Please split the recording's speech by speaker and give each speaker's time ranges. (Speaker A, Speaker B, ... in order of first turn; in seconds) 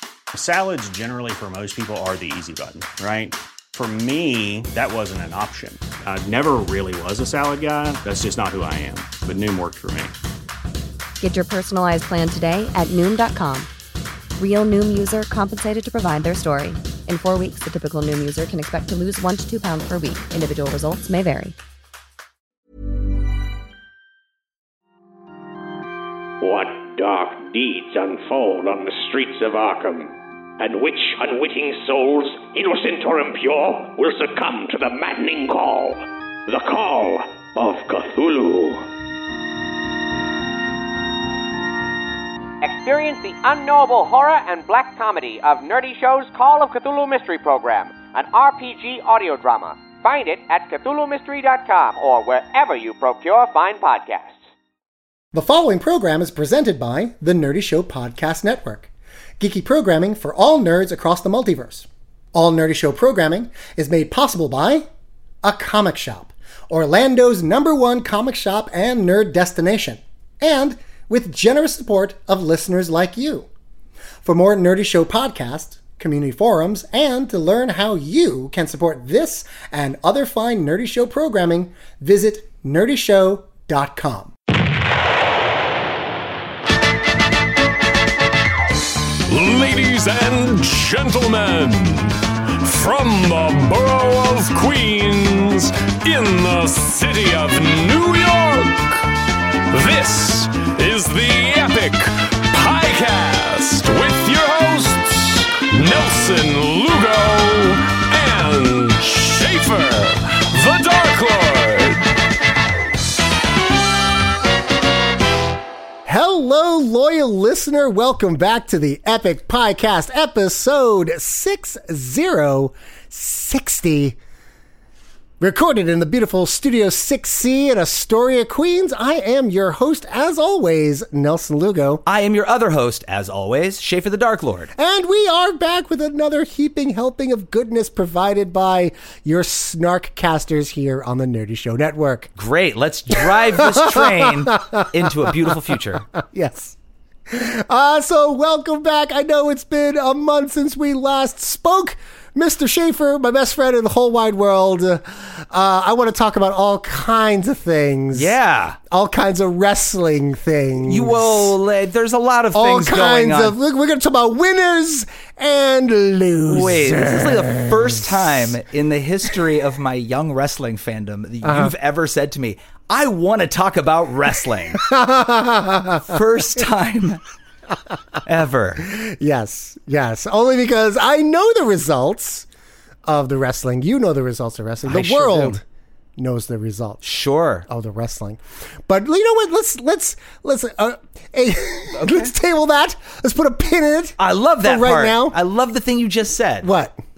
Speaker A: 0.3-10.1
Speaker B: 11.2-13.7, 14.4-21.6
Speaker C: 26.4-38.9
Speaker D: 42.6-54.4
Speaker E: 55.3-64.9, 65.4-73.5, 74.2-84.3, 116.0-124.2, 125.4-132.0, 134.8-142.3, 143.1-145.5, 146.1-146.8, 147.3-158.3, 158.9-161.5, 162.5-167.7, 171.4-171.7, 174.8-176.0, 178.8-182.5, 183.1-185.6, 186.2-187.0, 187.7-195.4, 196.6-197.0
Speaker F: 89.3-99.0, 99.7-112.1
Speaker G: 132.1-134.7, 142.4-146.1, 158.1-158.8, 160.9-163.6, 166.5-174.9, 176.0-177.2, 178.2-178.9, 184.8-185.6, 187.0-187.7, 192.0-192.3, 194.2-196.7